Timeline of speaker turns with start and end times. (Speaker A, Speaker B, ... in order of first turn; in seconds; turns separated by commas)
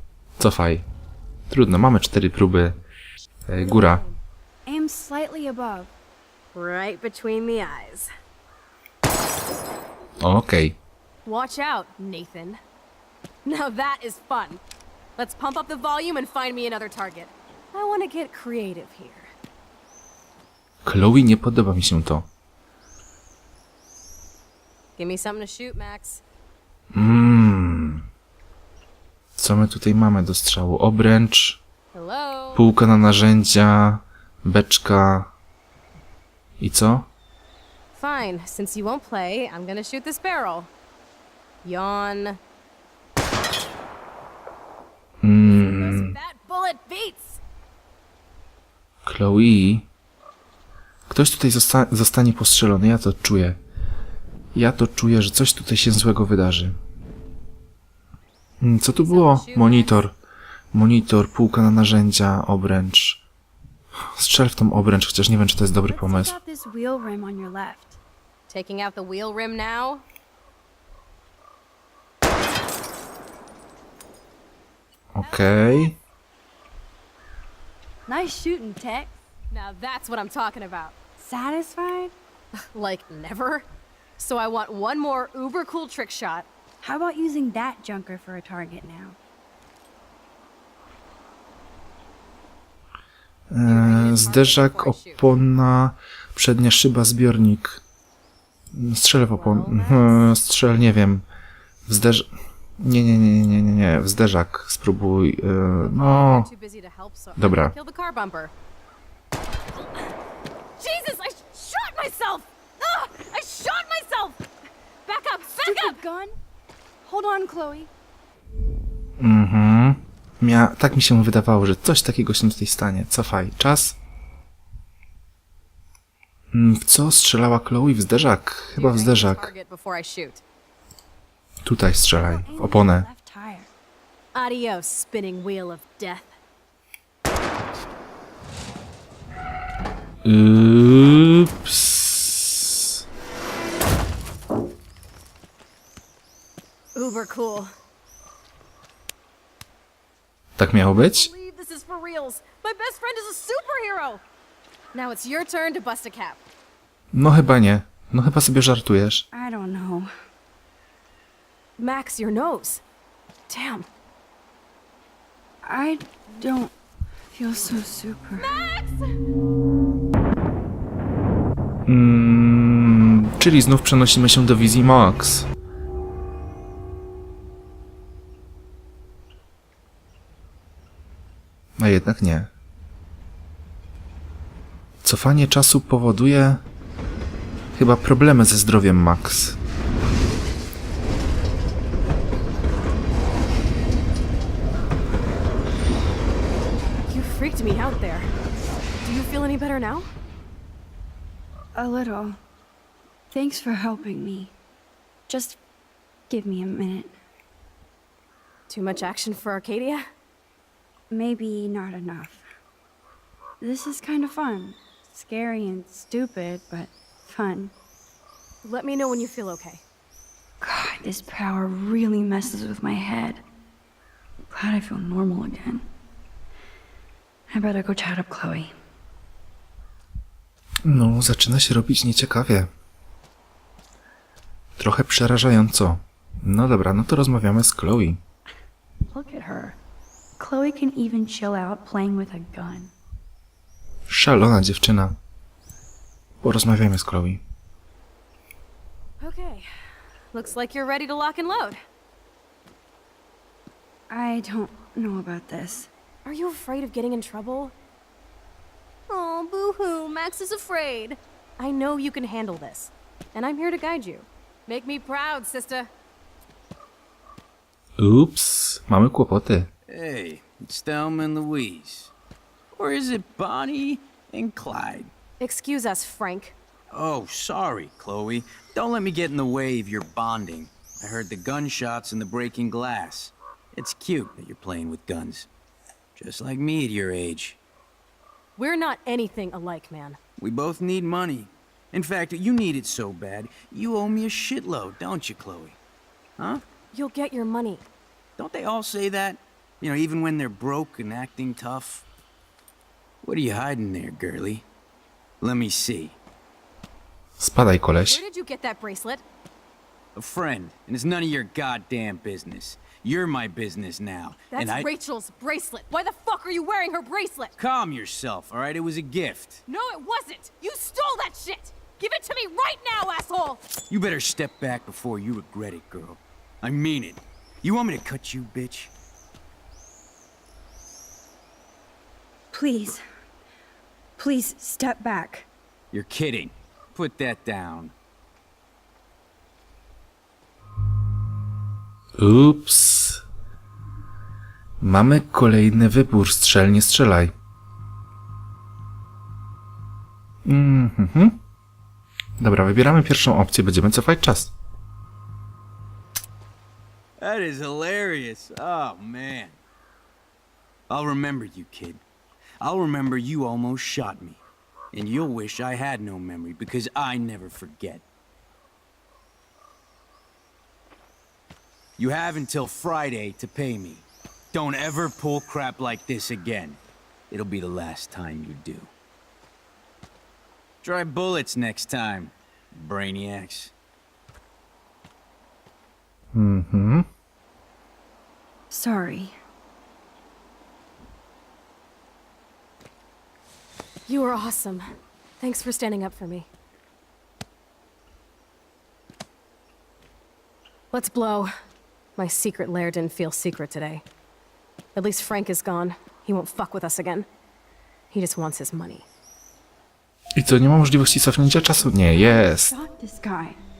Speaker A: 0.4-0.8, Speaker A: 1.5-2.8, Speaker A: 3.5-4.0, Speaker B: 3.5-4.2, Speaker C: 4.7-5.9, Speaker B: 6.5-8.1, Speaker A: 10.2-10.8, Speaker B: 11.3-12.6, Speaker B: 13.4-14.6, Speaker B: 15.2-19.3, Speaker A: 20.8-22.3, Speaker B: 25.0-26.2, Speaker A: 26.9-28.1, Speaker A: 29.4-31.6, Speaker B: 31.9-32.6, Speaker A: 32.5-35.3, Speaker A: 36.6-37.1, Speaker B: 38.0-40.7, Speaker B: 41.6-42.4, Speaker A: 45.2-46.2, Speaker B: 45.4-47.4, Speaker A: 49.0-49.9, Speaker A: 51.1-53.6, Speaker A: 54.5-56.8, Speaker A: 58.6-60.1, Speaker B: 58.9-60.0, Speaker A: 60.7-63.2, Speaker A: 64.0-66.4, Speaker C: 65.9-68.0, Speaker B: 68.5-70.0, Speaker A: 75.1-76.0, Speaker B: 75.2-75.9, Speaker C: 78.1-79.2, Speaker B: 79.5-80.9, Speaker C: 81.2-82.1, Speaker B: 82.7-83.7, Speaker B: 84.2-86.5, Speaker C: 86.8-89.2, Speaker A: 93.5-97.8, Speaker B: 93.6-95.2, Speaker A: 98.7-101.2, Speaker B: 99.3-100.3, Speaker A: 101.9-106.5, Speaker B: 105.8-108.5, Speaker A: 107.4-107.8, Speaker B: 110.8-114.4, Speaker B: 115.1-116.0, Speaker C: 115.6-116.4, Speaker C: 117.0-117.9, Speaker A: 119.2-124.0, Speaker A: 126.5-129.5, Speaker B: 128.8-130.4, Speaker A: 131.7-133.1, Speaker C: 132.2-133.7, Speaker B: 134.3-136.4, Speaker A: 140.2-142.9, Speaker B: 146.9-147.7, Speaker A: 150.6-151.3, Speaker B: 150.9-154.2, Speaker B: 154.9-156.4, Speaker A: 157.1-159.3, Speaker C: 159.3-160.1, Speaker B: 161.8-162.8, Speaker B: 163.5-163.9, Speaker C: 165.6-166.7, Speaker C: 167.3-168.6, Speaker B: 168.4-169.2, Speaker A: 171.9-175.5, Speaker A: 181.8-182.5, Speaker A: 185.0-186.6, Speaker A: 187.7-189.6, Speaker B: 197.1-198.3, Speaker B: 199.0-200.1, Speaker C: 201.8-202.4, Speaker C: 203.3-204.5, Speaker C: 205.3-205.6, Speaker C: 206.3-207.2, Speaker B: 208.7-210.1, Speaker C: 211.1-212.5, Speaker C: 213.6-217.7, Speaker B: 218.6-219.8, Speaker C: 220.6-223.4, Speaker C: 224.5-225.9, Speaker C: 227.5-228.7, Speaker A: 230.8-232.7, Speaker A: 234.8-238.2, Speaker C: 239.1-239.8, Speaker C: 240.4-242.9, Speaker A: 244.1-245.2, Speaker A: 246.4-247.4, Speaker B: 249.2-249.7, Speaker B: 250.3-251.8, Speaker C: 254.1-255.9, Speaker B: 256.2-257.7, Speaker B: 259.1-265.9, Speaker A: 268.0-269.7, Speaker D: 269.9-272.1, Speaker D: 272.8-275.1, Speaker B: 275.4-276.6, Speaker D: 276.9-285.5, Speaker D: 286.2-287.6, Speaker B: 288.6-290.2, Speaker D: 290.4-295.8, Speaker B: 296.9-297.9, Speaker D: 298.4-302.1, Speaker D: 303.2-304.6, Speaker D: 305.4-306.2, Speaker A: 307.4-308.2, Speaker B: 308.1-309.2, Speaker D: 310.1-314.9, Speaker B: 314.5-317.5, Speaker D: 317.6-319.6, Speaker B: 319.7-323.6, Speaker D: 323.9-328.9, Speaker C: 332.5-333.0, Speaker C: 334.2-335.5, Speaker D: 335.9-337.9, Speaker A: 342.2-343.2, Speaker A: 344.8-347.3, Speaker A: 350.4-351.4, Speaker A: 352.4-354.5, Speaker D: 357.2-359.6, Speaker D: 360.9-362.0, Speaker D: 362.6-364.4, Speaker D: 364.9-368.0, Speaker D: 372.0-376.8, Speaker D: 377.3-378.9, Speaker D: 380.8-383.7, Speaker A: 386.3-387.1, Speaker C: 388.7-389.4, Speaker B: 394.1-394.9, Speaker B: 395.4-396.5, Speaker B: 400.9-401.5, Speaker B: 402.2-404.0, Speaker B: 404.9-407.3, Speaker B: 408.1-409.1, Speaker A: 410.4-412.7, Speaker C: 411.8-413.6